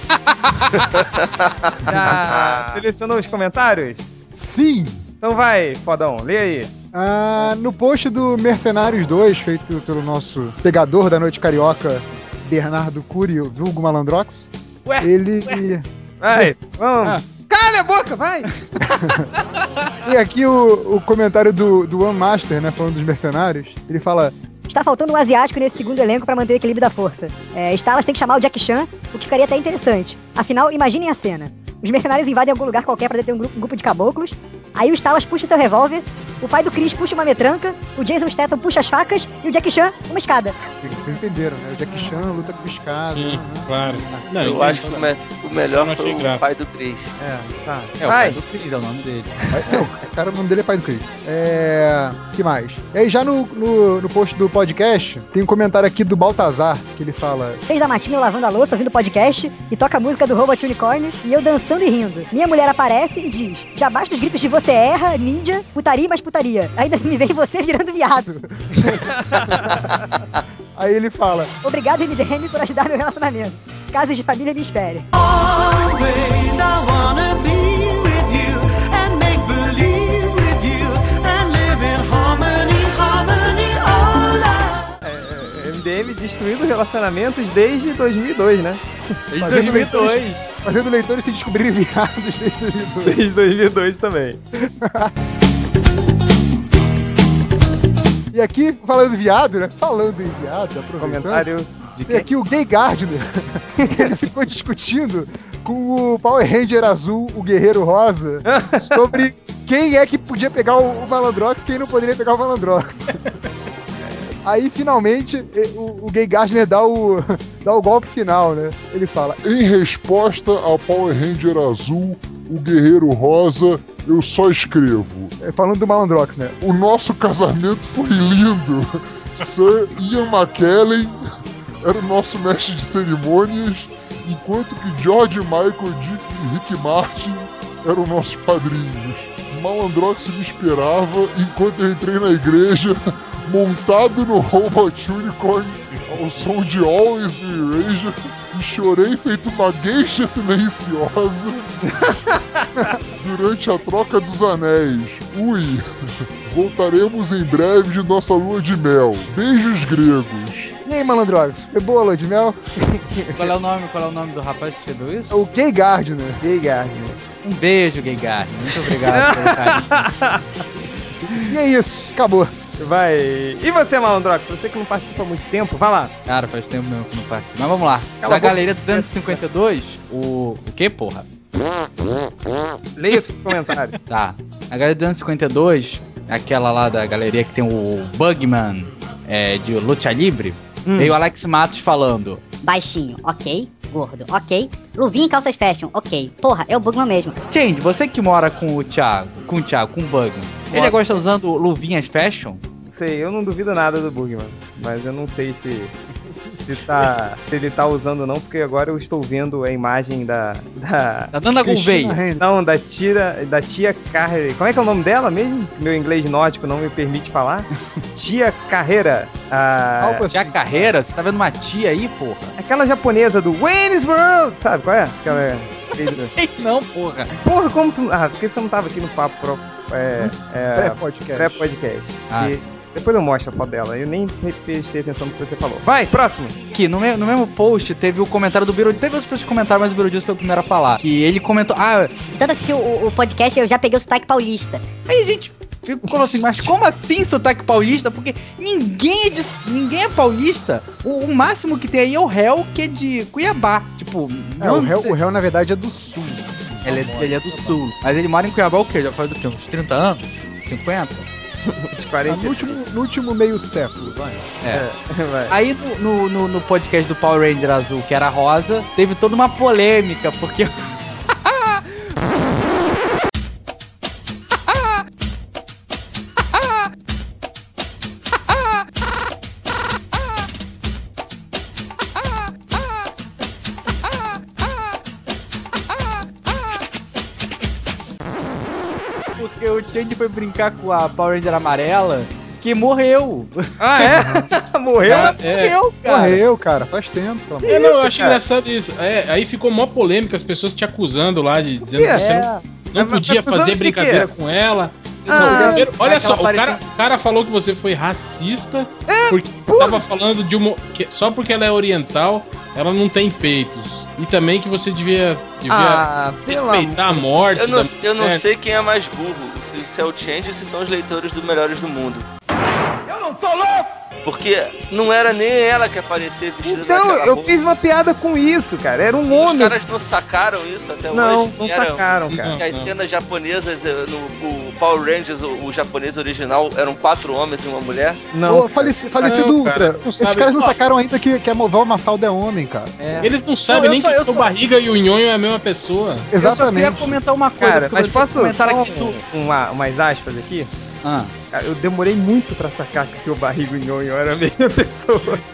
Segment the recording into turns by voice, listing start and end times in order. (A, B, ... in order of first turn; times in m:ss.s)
0:00.3-0:01.1 A
0:01.8-0:04.1 B
0:01.9-0:02.8 C
0:04.3-0:05.0 D
0:05.2-0:06.7 B
0:06.9-0:14.5 D
0:14.8-0:15.7 A
0:15.0-0:15.8 D
0:16.2-0:18.5 B
0:18.7-0:19.1 A
0:20.0-0:24.3 D
0:24.7-0:40.6 E
0:40.8-0:44.2 D
0:43.1-0:45.1 F
0:44.4-0:47.1 C
0:45.8-0:46.4 F
0:47.2-0:48.4 B
0:48.0-0:49.5 A
0:49.5-0:57.6 D
0:57.7-1:08.3 E
1:08.3-1:09.8 D
1:09.0-1:09.6 B
1:10.8-1:11.5 D
1:11.6-1:15.1 E
1:15.1-1:24.8 G
1:25.0-1:28.8 B
1:29.3-1:30.5 A
1:29.4-1:33.2 D
1:33.0-1:34.4 B
1:34.6-1:35.1 D
1:38.3-1:41.5 D
1:41.0-1:42.3 B
1:42.0-1:53.2 D
1:48.4-1:49.0 B
1:54.4-1:59.4 D
1:59.4-2:05.3 H
2:05.4-2:06.6 D
2:06.6-2:11.2 H
2:11.8-2:31.8 H
2:31.8-2:32.6 B
2:33.2-2:35.8 H
2:36.4-2:40.8 H
2:40.8-2:42.6 D
2:42.8-2:43.5 B
2:43.4-2:45.4 A
2:45.3-2:46.4 D
2:46.4-2:47.2 B
2:47.4-2:50.1 A
2:49.0-2:50.6 B
2:51.4-2:52.5 D
2:52.8-2:56.2 B
2:56.2-3:01.3 A
2:58.2-2:59.4 B
3:03.0-3:03.9 B
3:04.1-3:12.4 A
3:10.8-3:11.2 B
3:12.6-3:17.4 I
3:17.5-3:22.6 A
3:20.7-3:21.2 B
3:22.8-3:25.9 B
3:26.5-3:31.3 B
3:31.3-3:32.2 A
3:31.5-3:32.7 D
3:32.3-3:40.3 B
3:40.0-3:40.9 D
3:40.3-3:42.6 A
3:42.6-3:46.3 B
3:45.9-3:47.3 A
3:47.4-3:56.6 B
3:50.7-3:51.7 D
3:52.3-3:52.7 A
3:56.7-4:02.1 A
4:02.3-4:04.9 I
4:05.1-4:15.2 A
4:06.1-4:06.7 B
4:14.6-4:17.8 D
4:16.8-4:21.3 A
4:21.6-4:22.8 B
4:22.2-4:24.5 D
4:24.7-4:25.5 B
4:25.5-4:30.9 A
4:49.3-4:54.1 A
4:53.8-4:55.4 B
4:54.1-4:54.5 D
4:55.0-4:56.4 A
4:55.1-4:55.8 F
4:56.0-4:58.0 D
4:57.6-4:58.4 B
4:57.6-5:18.4 F
5:01.8-5:04.3 B
5:02.2-5:02.5 A
5:05.2-5:06.8 A
5:05.3-5:05.9 B
5:09.1-5:10.0 B
5:15.7-5:17.2 B
5:17.5-5:22.2 C
5:23.1-5:23.8 G
5:24.2-5:27.6 C
5:26.6-5:29.7 B
5:29.3-5:38.2 C
5:31.1-5:32.6 B
5:32.3-5:32.9 F
5:38.3-5:39.4 B
5:38.4-5:42.9 D
5:39.2-5:40.8 F
5:43.0-5:44.5 A
5:43.2-5:46.3 F
5:46.3-5:47.2 D
5:46.4-5:49.2 A
5:47.6-5:50.7 B
5:51.0-5:51.3 A
5:51.5-5:55.4 B